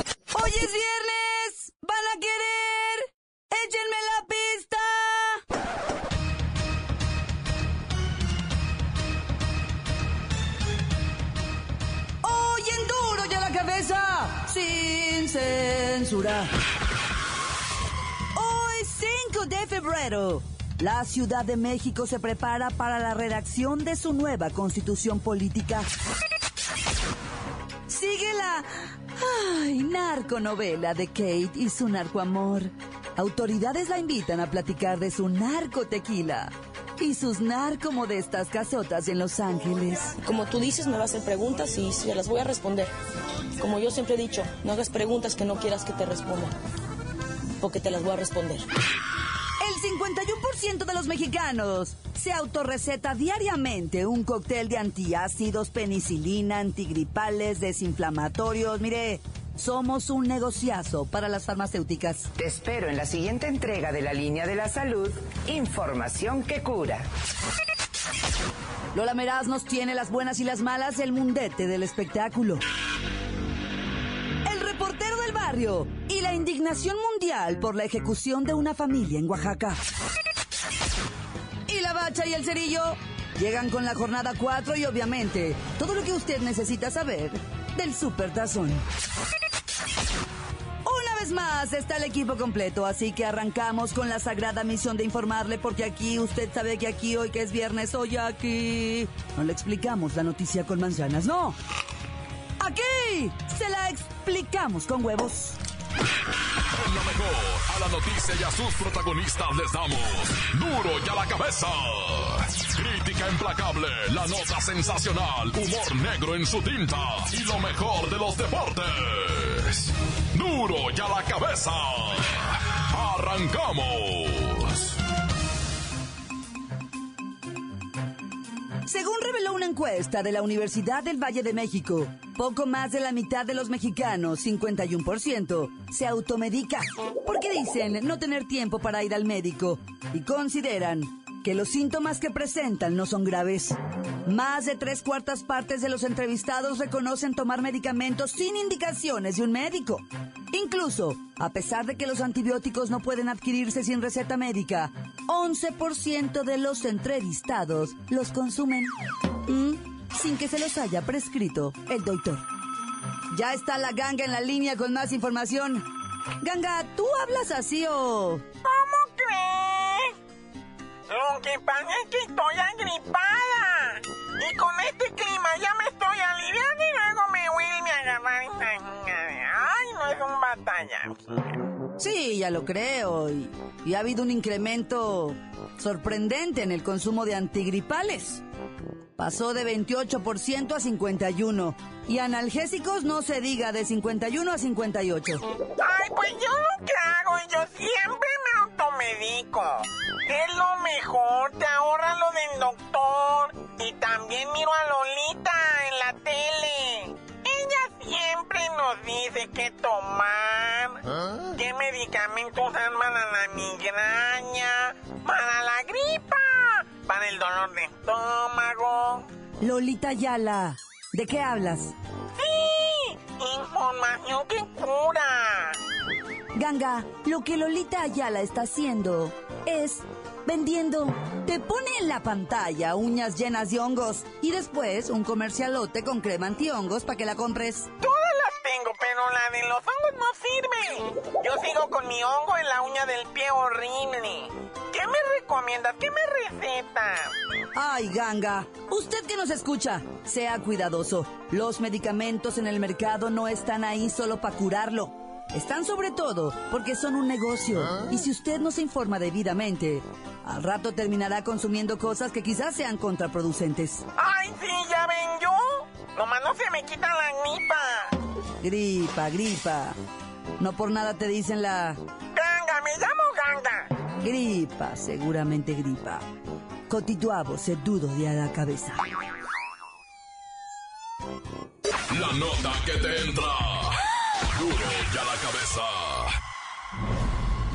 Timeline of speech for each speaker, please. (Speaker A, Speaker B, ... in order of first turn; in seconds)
Speaker A: 0.3-5.4, 12.2-16.5, 18.3-25.9, 27.9-40.1, 49.6-62.3, 68.9-72.6, 74.4-79.8, 81.7-88.8, 90.8-101.6, 102.6-105.6, 128.8-158.9, 159.5-162.4, 163.3-165.8, 166.4-168.4, 182.0-188.4, 189.2-195.4, 219.6-221.9, 226.5-237.9, 247.7-264.0, 268.6-269.9, 270.6-272.0, 274.2-276.2, 276.9-279.0
Speaker B: 40.2-42.9, 43.6-46.5, 47.6-48.5
Speaker C: 62.4-67.0
Speaker D: 106.8-124.9, 282.1-284.0, 284.5-286.3
Speaker E: 168.6-170.1, 171.1-181.6, 195.8-211.0, 211.5-219.2, 222.3-225.8, 238.0-247.3, 264.2-268.1, 272.3-273.9